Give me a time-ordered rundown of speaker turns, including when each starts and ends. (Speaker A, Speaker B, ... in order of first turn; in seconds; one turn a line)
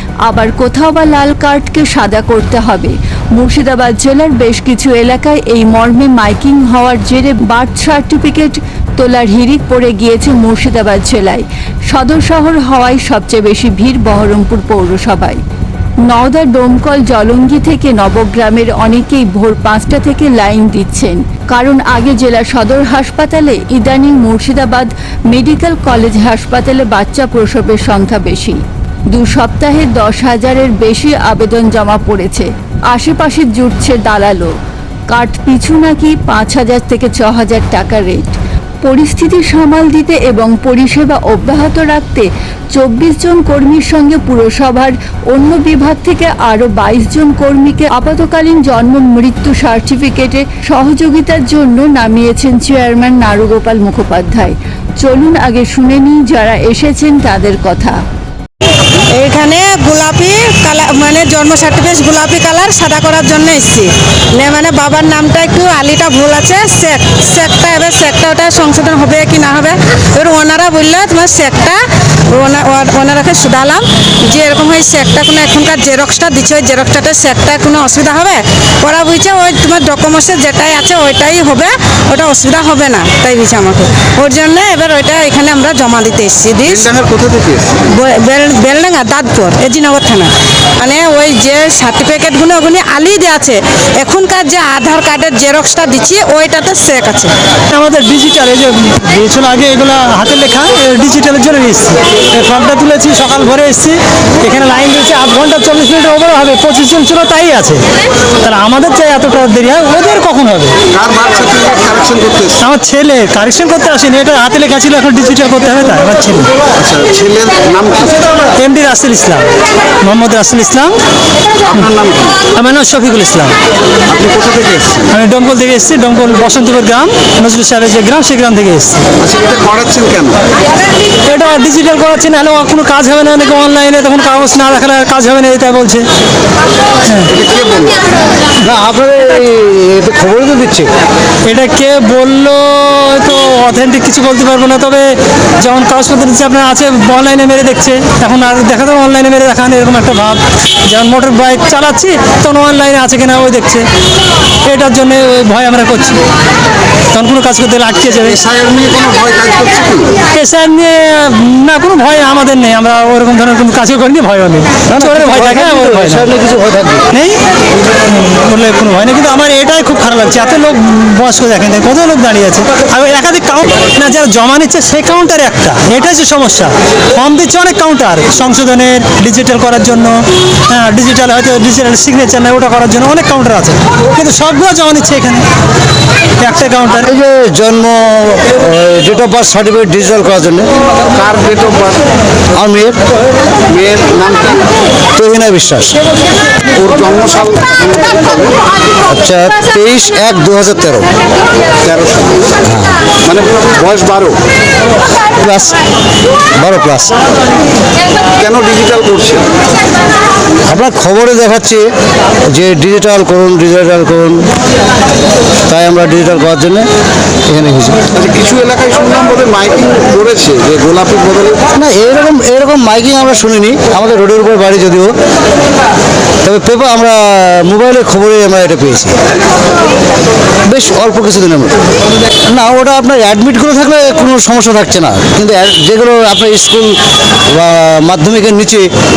Speaker A: 0.2-15.4
Speaker A: 16.1-28.6
Speaker A: 29.1-34.5
Speaker A: 35.1-58.0
Speaker B: 59.1-86.9
Speaker C: 86.7-87.8
Speaker B: 87.9-97.3
Speaker D: 97.7-107.8
Speaker D: 108.4-110.7
Speaker C: 110.9-112.6
Speaker D: 112.6-116.5
Speaker C: 116.8-118.2
Speaker D: 118.6-119.5
Speaker D: 120.0-121.0
Speaker C: 121.7-122.3
Speaker D: 122.5-123.5
Speaker C: 124.1-125.1
Speaker D: 125.1-129.0
Speaker C: 129.2-130.4
Speaker D: 131.3-136.0
Speaker D: 137.1-137.3
Speaker C: 137.3-137.9
Speaker E: 138.6-140.9
Speaker D: 141.5-153.8
Speaker D: 154.6-156.2
Speaker D: 157.1-158.4
Speaker C: 158.3-160.2
Speaker D: 160.3-166.3
Speaker E: 164.9-167.1
Speaker D: 167.1-167.4
Speaker D: 168.1-185.4
Speaker D: 186.4-187.0
Speaker E: 186.9-190.7
Speaker C: 191.2-191.8
Speaker E: 192.5-193.0
Speaker C: 193.7-194.6
Speaker E: 195.1-195.9
Speaker C: 196.8-198.5
Speaker E: 199.1-201.1
Speaker C: 201.9-202.4
Speaker E: 202.7-202.9
Speaker C: 203.2-204.3
Speaker E: 205.4-205.7
Speaker E: 206.6-207.1
Speaker C: 208.4-209.3
Speaker E: 210.7-211.8
Speaker E: 212.5-214.5
Speaker E: 215.7-216.9
Speaker E: 217.4-218.0
Speaker C: 218.2-221.6
Speaker E: 221.7-225.1
Speaker E: 226.4-229.2
Speaker E: 230.7-231.8
Speaker E: 232.5-236.9
Speaker E: 237.5-238.9